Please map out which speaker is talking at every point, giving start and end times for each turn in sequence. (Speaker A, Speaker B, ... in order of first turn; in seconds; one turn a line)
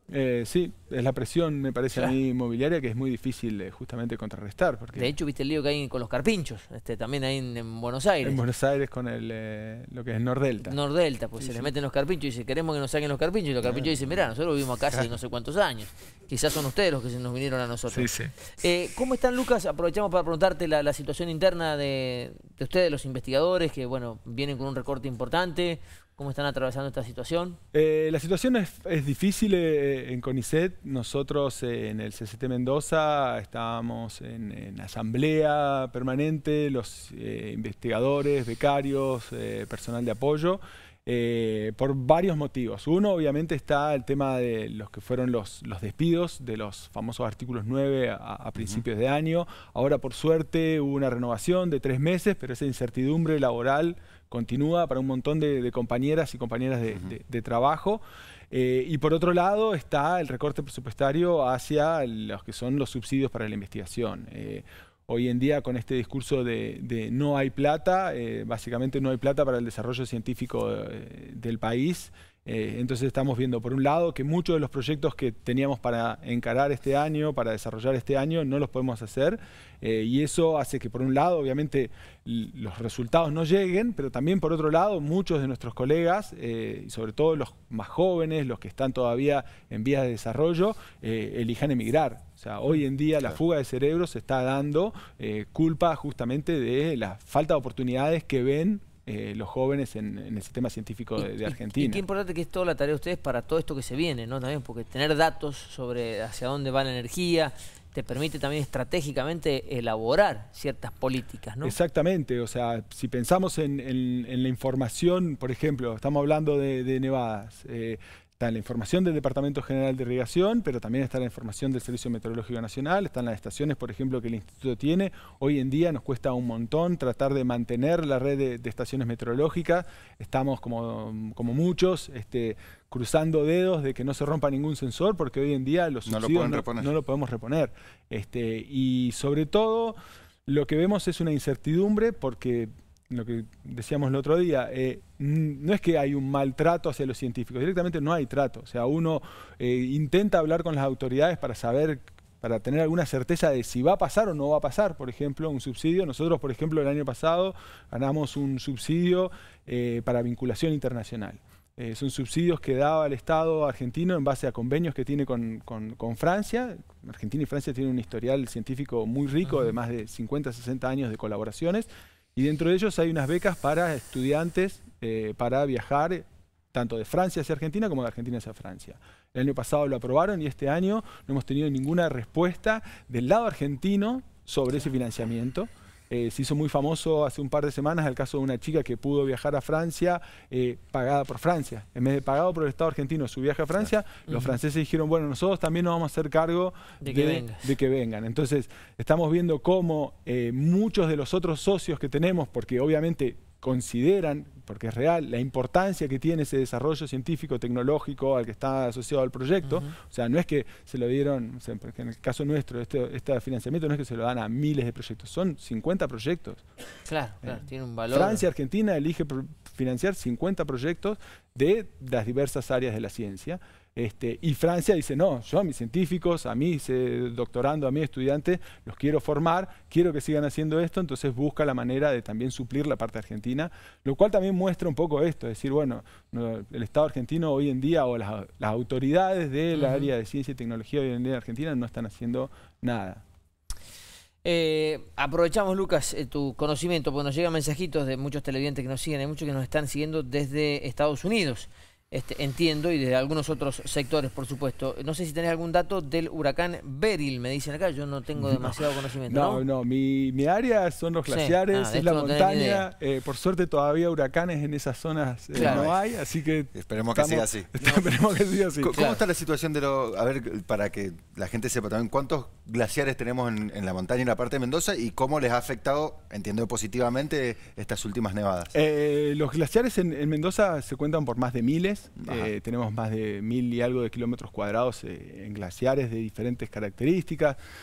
Speaker A: 0.1-5.1
Speaker B: 5.0-8.4
Speaker A: 8.2-10.8
Speaker B: 10.6-27.6
Speaker A: 11.4-11.7
Speaker A: 17.9-18.3
Speaker A: 27.7-102.0
Speaker C: 48.5-48.8
Speaker B: 101.2-111.8
Speaker A: 111.6-216.6
Speaker C: 136.0-136.9
Speaker B: 169.4-169.7
Speaker B: 194.3-194.5
Speaker B: 197.0-197.6
Speaker B: 217.1-218.4
Speaker A: 217.4-243.2
Speaker B: 239.7-240.1
Speaker B: 244.4-259.6
Speaker A: 258.4-258.8
Speaker A: 259.3-269.0
Speaker B: 261.3-262.9
Speaker B: 265.5-265.9
Speaker C: 265.6-266.0
Speaker C: 266.7-267.7
Speaker C: 268.8-278.7
Speaker B: 268.9-269.2
Speaker A: 278.7-287.6
Speaker C: 282.2-282.5